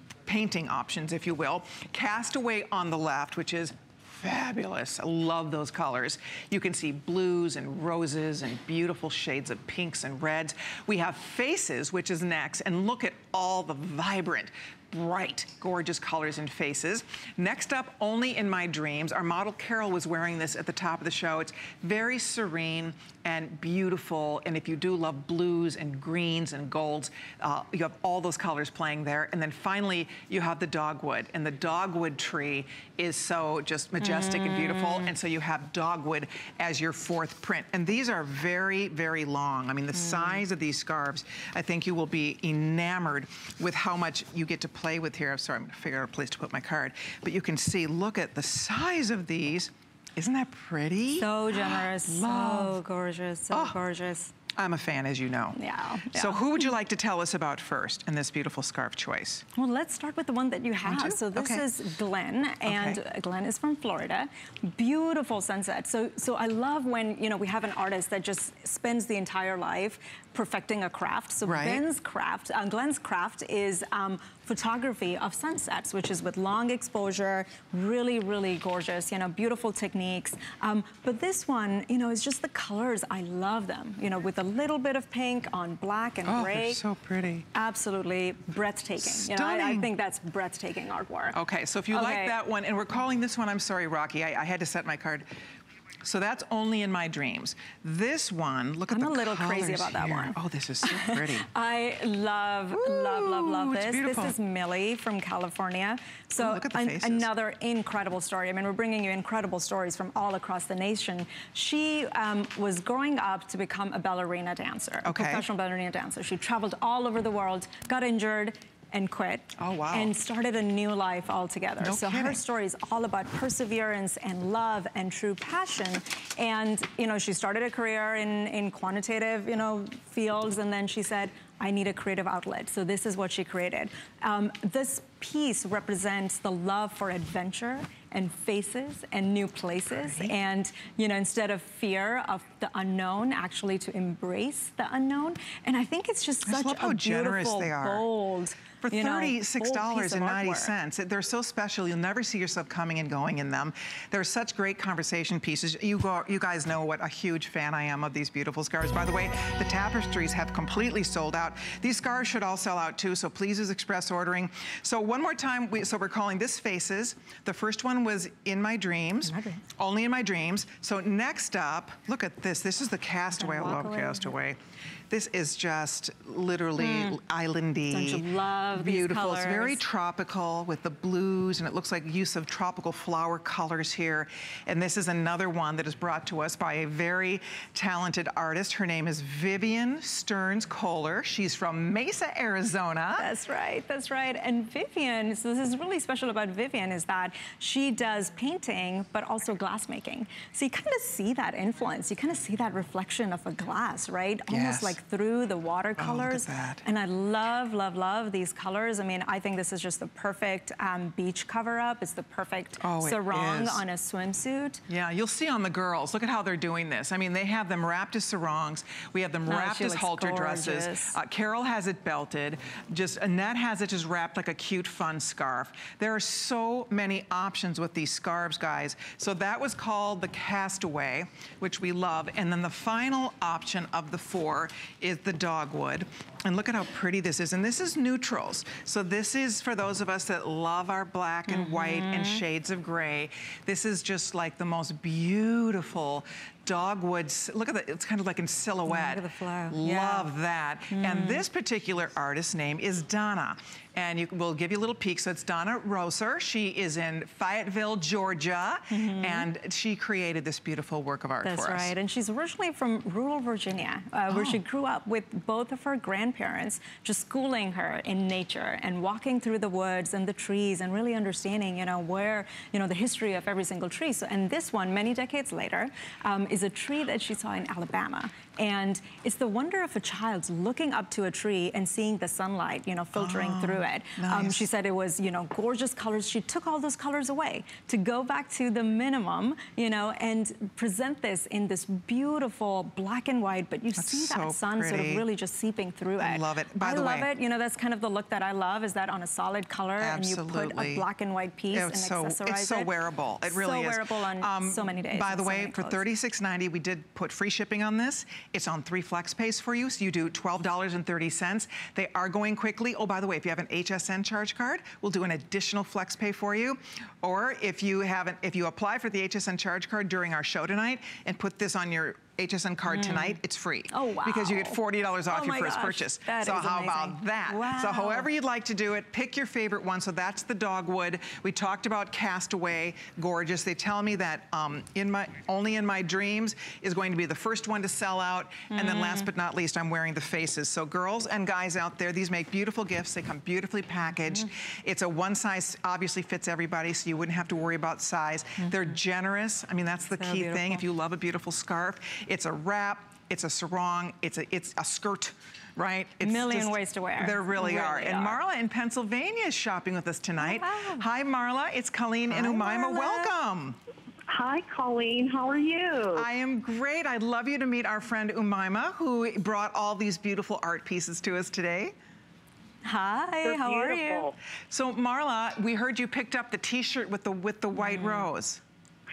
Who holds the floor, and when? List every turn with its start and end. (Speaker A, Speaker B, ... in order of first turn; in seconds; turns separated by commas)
Speaker A: 0.3-52.8, Speaker B: 34.0-35.1, Speaker B: 40.0-40.4, Speaker B: 51.2-54.3, Speaker A: 53.5-53.8, Speaker A: 54.6-55.6, Speaker B: 55.6-56.7, Speaker A: 56.1-59.5, Speaker B: 59.5-86.8, Speaker A: 60.8-61.6, Speaker A: 62.7-63.0, Speaker A: 71.5-71.8, Speaker A: 86.3-87.5, Speaker B: 87.5-91.4, Speaker A: 89.0-89.9, Speaker A: 91.3-95.3, Speaker B: 91.9-92.3, Speaker A: 96.0-101.5, Speaker B: 98.9-150.7, Speaker A: 102.7-104.3, Speaker A: 106.4-107.3, Speaker A: 115.0-115.4, Speaker A: 119.6-120.1, Speaker A: 121.8-122.4, Speaker A: 140.0-140.4, Speaker A: 146.5-148.1, Speaker A: 148.8-174.6, Speaker B: 169.2-169.6, Speaker B: 173.3-174.3, Speaker A: 175.1-178.2, Speaker B: 176.8-177.2, Speaker B: 177.9-179.8, Speaker A: 178.8-193.3, Speaker B: 193.2-214.8, Speaker A: 204.5-205.0, Speaker A: 206.0-206.8, Speaker A: 212.8-213.8, Speaker A: 214.9-261.9, Speaker B: 219.5-221.2, Speaker B: 241.5-242.4, Speaker B: 248.9-250.3, Speaker B: 250.9-251.4, Speaker B: 258.9-259.5, Speaker B: 261.4-302.9, Speaker A: 264.3-264.6, Speaker A: 283.1-284.6, Speaker A: 293.9-295.2, Speaker A: 296.2-297.3, Speaker A: 300.0-301.1, Speaker A: 301.7-363.8, Speaker B: 303.4-306.0, Speaker B: 322.9-323.4, Speaker B: 323.9-328.3, Speaker B: 338.7-339.3, Speaker B: 348.6-348.9, Speaker B: 350.2-350.9, Speaker B: 356.2-358.4, Speaker B: 360.4-361.1, Speaker B: 362.3-363.4, Speaker C: 364.3-366.3, Speaker A: 366.1-371.9, Speaker B: 372.8-374.3, Speaker C: 373.4-374.3, Speaker A: 374.7-378.6, Speaker B: 377.8-378.3